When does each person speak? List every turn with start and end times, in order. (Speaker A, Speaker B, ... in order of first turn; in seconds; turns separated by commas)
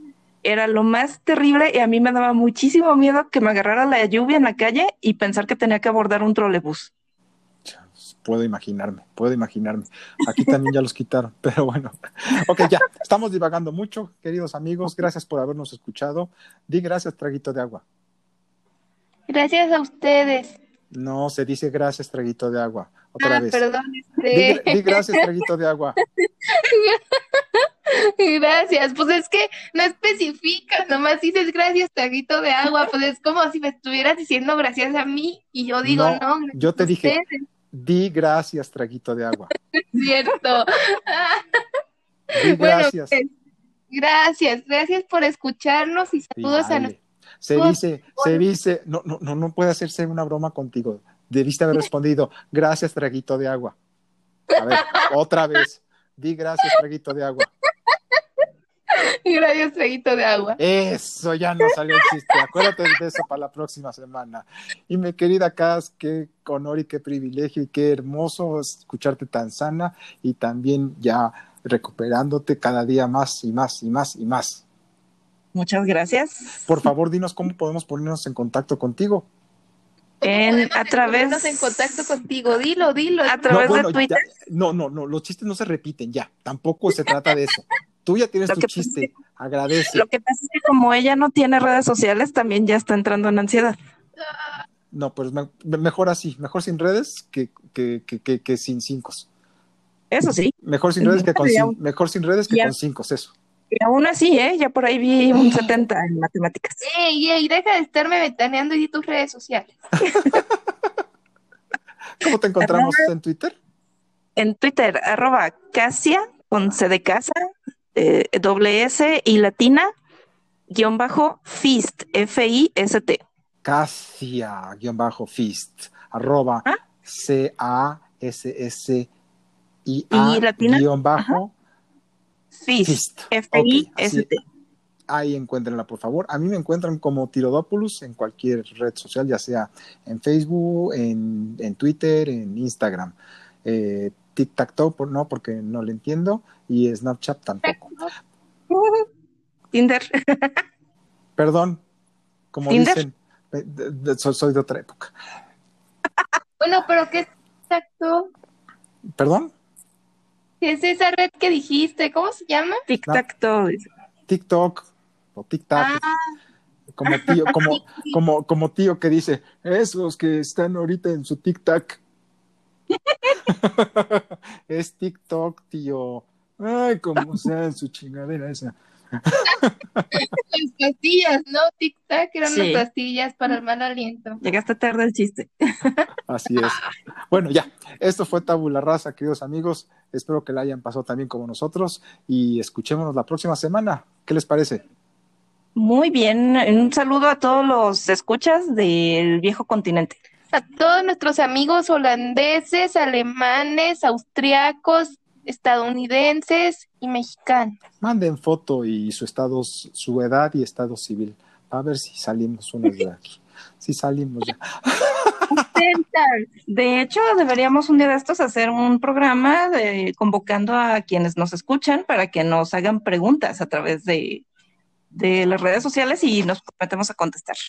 Speaker A: 0.4-6.9, Speaker B: 7.6-17.8, Speaker C: 19.3-20.6, Speaker B: 20.9-23.6, Speaker C: 23.2-25.3, Speaker B: 24.3-26.0, Speaker C: 26.5-27.0, Speaker C: 27.6-37.4, Speaker B: 35.8-37.2, Speaker B: 37.7-39.5, Speaker C: 39.8-41.4, Speaker B: 42.3-43.2, Speaker C: 42.4-43.3, Speaker C: 43.9-46.9, Speaker B: 46.4-53.8, Speaker C: 47.5-48.4, Speaker B: 54.5-57.5, Speaker C: 54.6-55.1, Speaker C: 58.9-60.6, Speaker B: 60.6-74.6, Speaker C: 62.0-62.7, Speaker A: 75.5-76.5, Speaker B: 76.6-79.3, Speaker A: 80.2-82.0, Speaker C: 80.2-83.9, Speaker A: 83.3-84.2, Speaker B: 83.5-90.0, Speaker A: 88.5-89.1, Speaker A: 89.9-93.7, Speaker B: 94.9-99.3, Speaker A: 100.1-101.8, Speaker B: 100.6-103.3, Speaker A: 103.7-106.8, Speaker C: 106.8-109.7, Speaker B: 110.1-110.5, Speaker B: 112.2-113.5, Speaker A: 112.6-113.1, Speaker A: 114.3-117.3, Speaker A: 117.9-119.9, Speaker A: 120.7-123.2, Speaker B: 123.6-129.1, Speaker B: 129.8-131.5, Speaker A: 130.1-131.4, Speaker A: 132.6-134.4, Speaker B: 132.8-134.3, Speaker B: 135.1-147.9, Speaker C: 147.6-148.1, Speaker A: 148.7-149.1, Speaker A: 149.7-150.6, Speaker B: 151.4-151.8, Speaker B: 152.5-155.1, Speaker A: 152.7-153.0, Speaker C: 156.6-158.3, Speaker B: 159.2-159.5, Speaker C: 160.6-162.8, Speaker A: 162.9-163.9, Speaker B: 164.3-166.0, Speaker C: 165.8-166.2, Speaker B: 166.9-172.0, Speaker C: 167.5-168.1, Speaker B: 173.4-180.1, Speaker C: 180.1-184.4, Speaker A: 182.4-182.8, Speaker A: 184.4-186.1, Speaker B: 186.3-194.8, Speaker A: 195.7-200.2, Speaker C: 200.5-207.8, Speaker B: 208.0-215.7, Speaker A: 215.5-224.4, Speaker C: 215.7-216.3, Speaker A: 225.1-227.6